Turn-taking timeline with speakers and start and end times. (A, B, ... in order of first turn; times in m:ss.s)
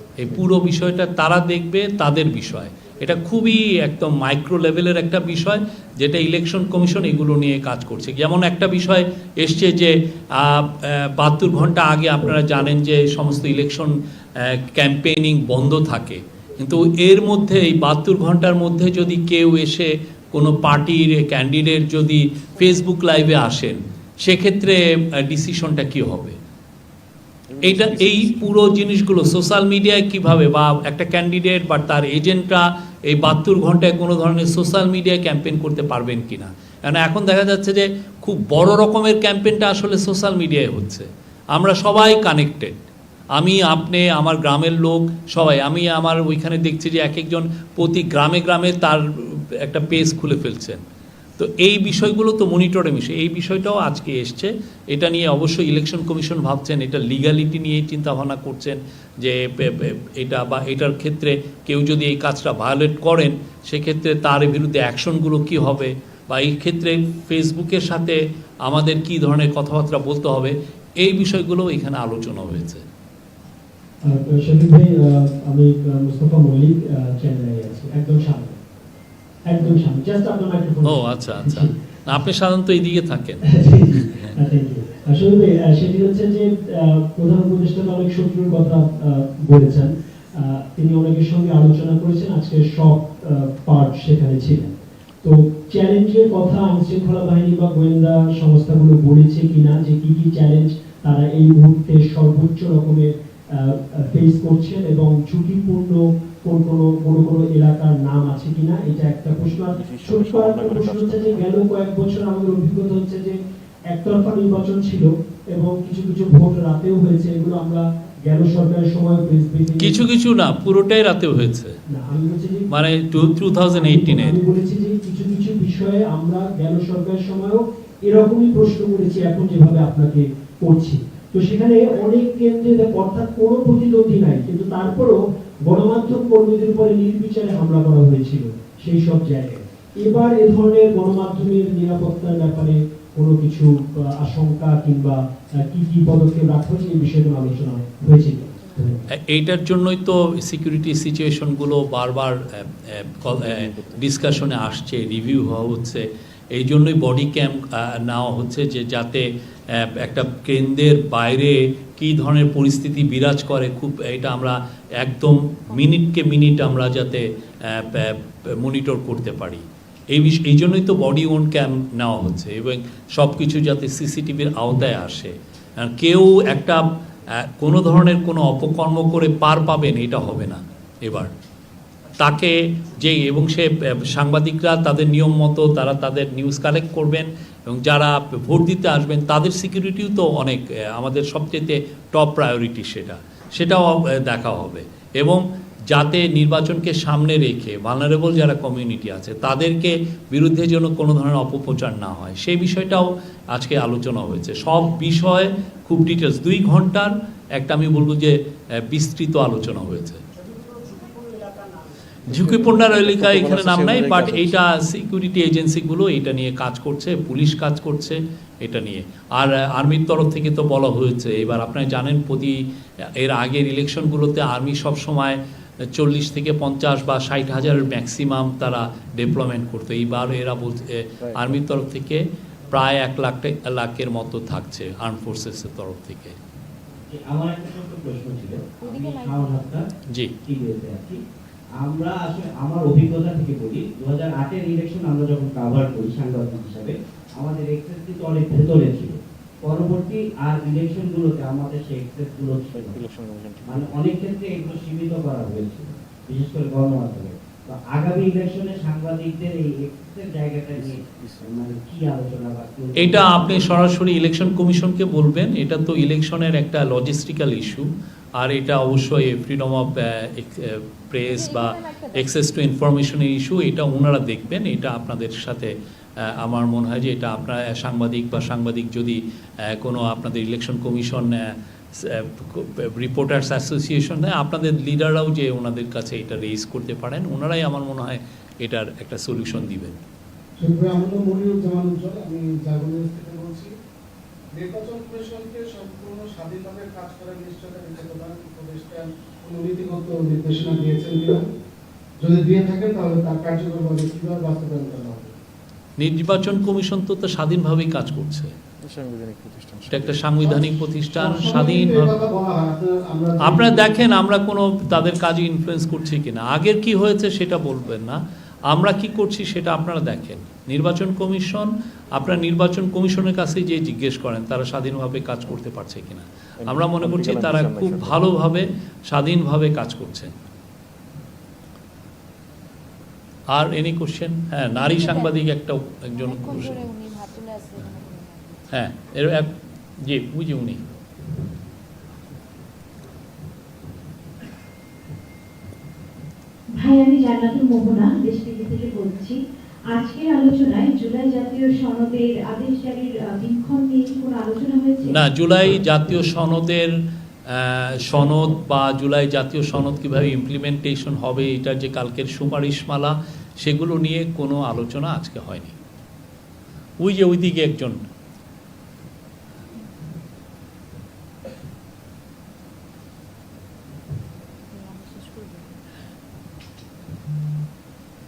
0:00.2-0:26.4 A
0:27.5-0:28.8 B
0:27.6-0:42.7 A
0:43.4-0:50.8 A
0:51.4-1:12.8 A
1:14.0-1:18.6 C
1:19.5-1:21.7 C
1:20.8-1:23.5 A
1:23.5-2:00.0 C
1:24.0-1:24.3 A
1:49.7-1:51.6 B
1:59.8-2:01.8 A
2:01.9-2:02.7 C
2:02.7-2:04.4 A
2:03.4-2:29.0 C
2:28.5-2:29.0 D
2:29.1-3:01.3 A
2:33.3-2:34.5 B
3:02.2-3:30.2 A
3:30.6-3:31.8 E
3:32.3-3:34.6 B
3:32.3-3:42.6 A
3:43.2-3:45.4 A
3:45.9-3:56.4 A
3:51.1-3:51.6 B
3:57.1-3:59.8 F
3:58.8-3:59.6 D
4:00.4-4:01.2 F
4:01.8-4:13.0 F
4:12.7-4:14.1 B
4:13.6-4:24.0 F
4:20.7-4:21.6 B
4:23.0-4:50.0 A
4:31.2-4:32.3 D
4:50.6-4:53.7 E
4:54.5-5:01.4 E
5:02.2-5:05.3 E
5:06.0-5:08.5 A
5:08.8-5:10.3 B
5:09.9-5:12.2 A
5:10.4-5:14.0 E
5:13.4-5:30.3 A
5:26.6-5:28.3 B
5:33.5-5:36.8 A
5:34.7-5:35.4 D
5:36.1-5:38.6 D
5:38.7-5:40.8 A
5:46.8-5:49.4 G
5:49.9-5:55.2 G
5:55.0-5:56.9 A
5:57.5-6:05.8 A
6:07.0-6:08.0 A
6:14.7-6:15.8 D